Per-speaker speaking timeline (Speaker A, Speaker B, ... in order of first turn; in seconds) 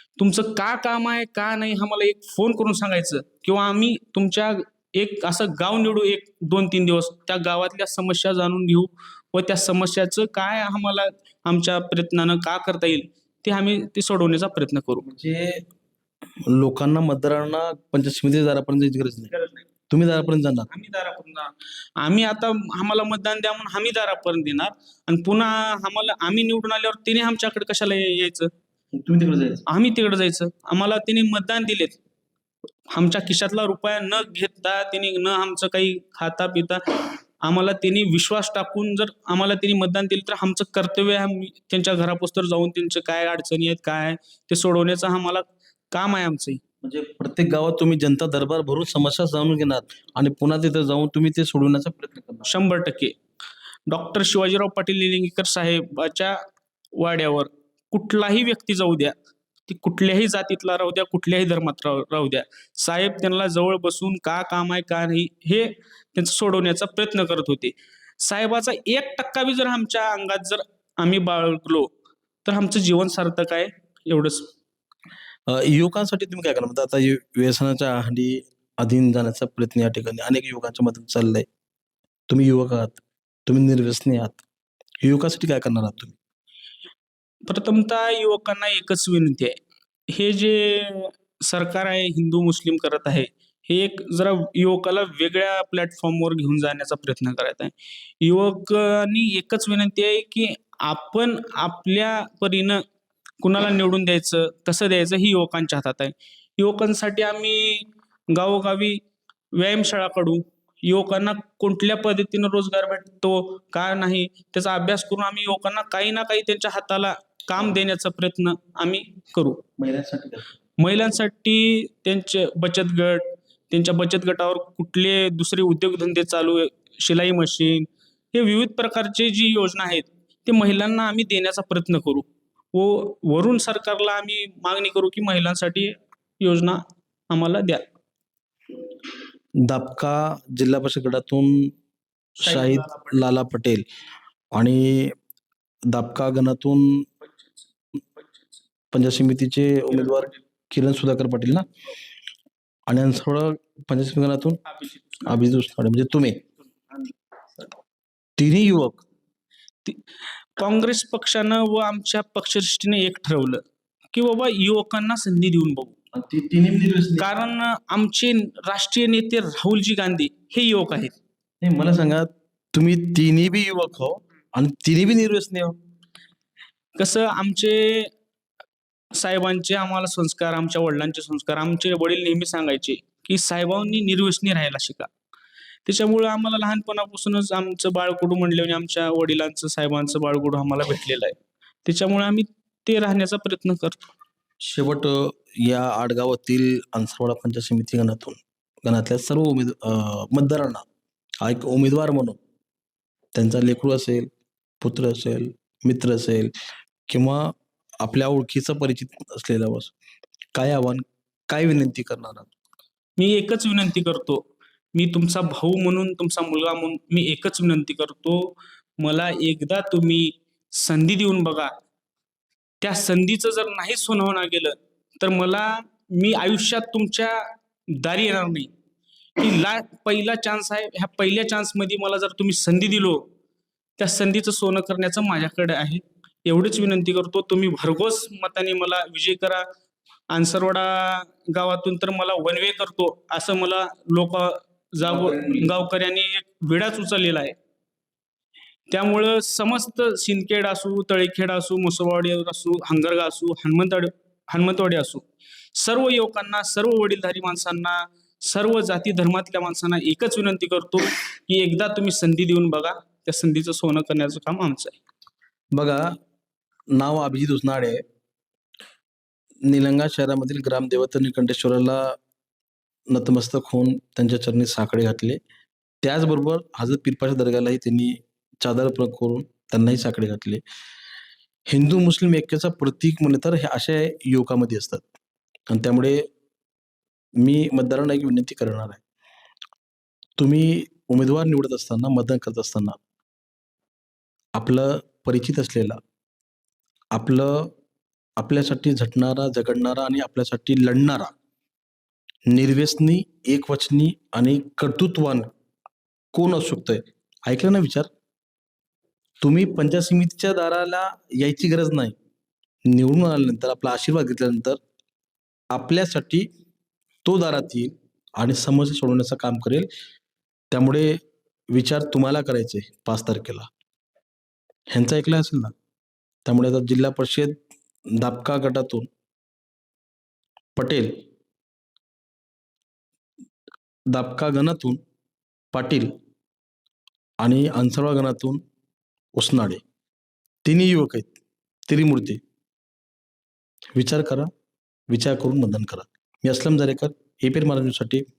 Speaker A: 0.2-15.1, 20.7-28.5, 29.6-32.0, 32.9-46.6, 52.5-53.1, 53.9-56.4, 56.9-59.1, 59.7-71.9, 72.4-74.5, 87.5-89.6, 90.1-102.8, 103.4-109.0, 109.5-119.6, 120.8-137.8, 142.4-143.2, 148.2-148.5, 149.9-150.4, 154.7-155.4, 160.6-165.9, 167.2-171.2, 176.9-178.1, 179.2-185.1, 185.8-194.0, 213.2-221.7, 222.8-227.4, 227.9-228.7, 229.4-233.3, 234.0-239.6, 240.3-247.6, 248.9-255.2, 255.8-264.9
Speaker B: 15.0-15.6, 16.4-19.3, 19.9-20.7, 28.9-29.6, 46.8-52.5, 75.5-81.5, 82.3-84.4, 85.0-86.2, 119.8-120.5, 139.6-141.7, 142.4-143.8, 144.5-145.2, 145.9-147.1, 148.9-151.7, 152.9-154.6, 155.2-156.4, 158.4-159.0, 166.1-167.3, 171.6-175.8, 194.6-200.8, 201.4-202.4, 203.3-204.3, 204.8-206.5, 207.1-209.9, 210.5-212.5, 245.0-245.7, 265.7-266.2, 266.9-268.0, 269.6-272.2, 273.1-275.4, 276.0-280.6, 281.7-285.1, 285.7-286.2, 287.4-289.0, 290.4-293.0, 294.6-296.0, 297.1-297.7, 298.4-301.3, 302.5-305.5, 306.3-308.1, 309.4-312.1, 312.9-314.8, 315.7-316.5, 317.2-319.9, 320.7-321.2, 321.7-323.7, 324.9-325.7, 326.4-327.6, 328.1-329.1, 330.8-331.2, 334.1-335.0, 335.7-336.2, 337.4-338.6, 339.4-339.8, 340.6-341.4, 341.9-342.4, 343.9-344.5, 345.1-348.2